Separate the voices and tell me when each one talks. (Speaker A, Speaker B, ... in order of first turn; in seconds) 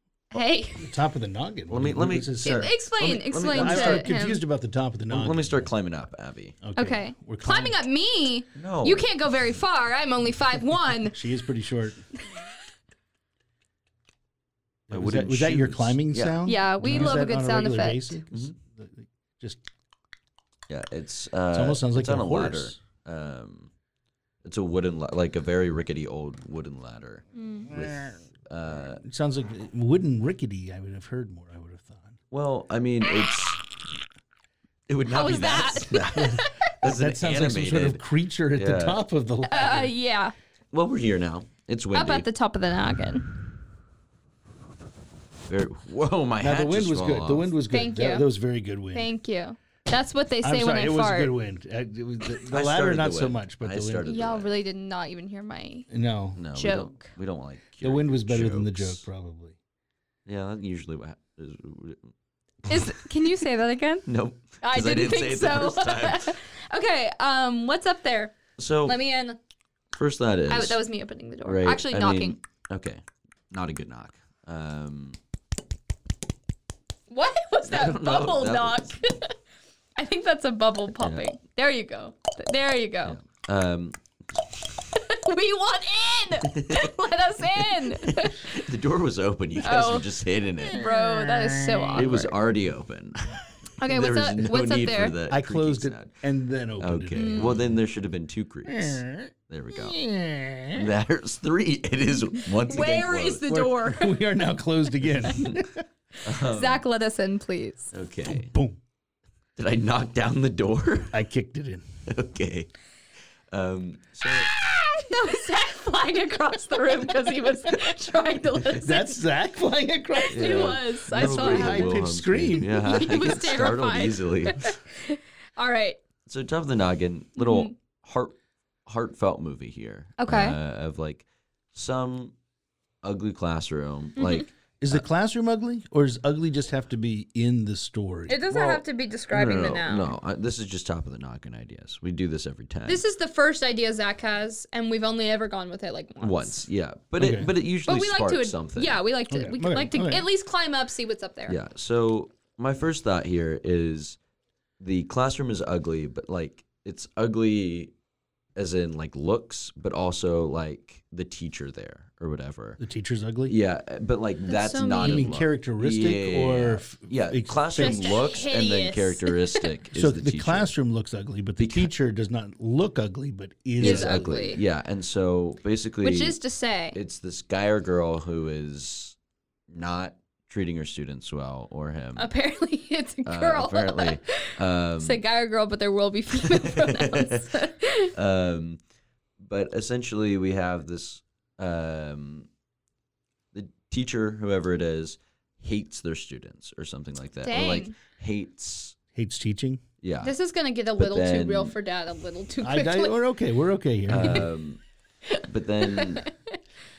Speaker A: 0.3-0.8, 2.4-4.4, 6.8-11.2, 16.5-18.2, 27.4-27.7, 35.1-36.7, 39.5-40.3, 41.9-43.3, 47.7-48.3, 48.9-51.3, 54.0-55.9, 56.5-57.1, 62.7-64.1, 64.6-69.4, 70.5-72.4, 77.1-79.3, 80.0-83.2, 84.9-88.5, 89.6-90.1, 90.6-92.3, 93.8-95.2, 97.2-97.6, 102.7-104.2, 106.3-107.9, 114.7-119.2, 120.1-122.0, 122.8-126.0, 127.4-127.7, 130.2-130.6, 134.2-134.5, 138.3-140.2, 142.9-146.7, 147.9-151.6, 164.5-165.3, 167.8-169.7, 173.8-174.6, 176.0-177.0, 182.2-184.5, 185.0-188.1, 197.4-197.9, 200.2-203.2, 205.3-206.6
Speaker B: 0.8-2.7, 3.5-5.7, 6.6-7.8, 11.1-12.0, 14.9-19.6, 21.5-22.8, 29.0-32.2, 36.8-39.9, 46.4-49.1, 50.4-54.1, 55.9-56.5, 57.8-59.6, 91.7-92.1, 95.3-97.7, 98.7-100.9, 103.5-105.8, 108.2-108.8, 111.1-111.8, 118.8-123.0, 134.8-138.4, 147.2-147.5, 149.3-150.3, 162.8-163.6, 165.0-168.2, 169.9-174.2, 199.1-199.8, 202.6-204.5
Speaker C: 1.7-4.1, 5.1-6.6, 8.6-9.1, 14.9-16.4, 18.3-18.6, 20.7-23.7, 24.4-29.0, 32.3-33.6, 34.9-39.0, 40.7-42.3, 45.5-47.5, 52.5-54.5, 56.4-59.0, 60.3-62.1, 64.1-66.4, 68.6-69.0, 69.9-70.8, 71.5-75.2, 77.6-79.0, 81.0-81.3, 83.0-84.4, 86.4-86.9, 87.8-90.8, 92.0-96.2, 96.8-100.1, 100.7-103.5, 106.2-106.8, 107.9-108.5, 109.6-111.2, 112.1-112.7, 113.5-114.5, 120.3-124.8, 126.3-132.3, 133.0-135.0, 138.5-143.0, 146.2-149.0, 151.5-154.2, 154.8-157.9, 158.6-162.8, 163.5-170.7, 171.6-171.9, 173.8-176.4, 176.9-179.2, 179.7-182.3, 183.3-185.2, 186.4-187.4, 188.2-188.8, 189.4-192.5, 193.5-199.0, 200.0-200.4, 201.0-201.8, 204.1-204.8, 205.5-206.3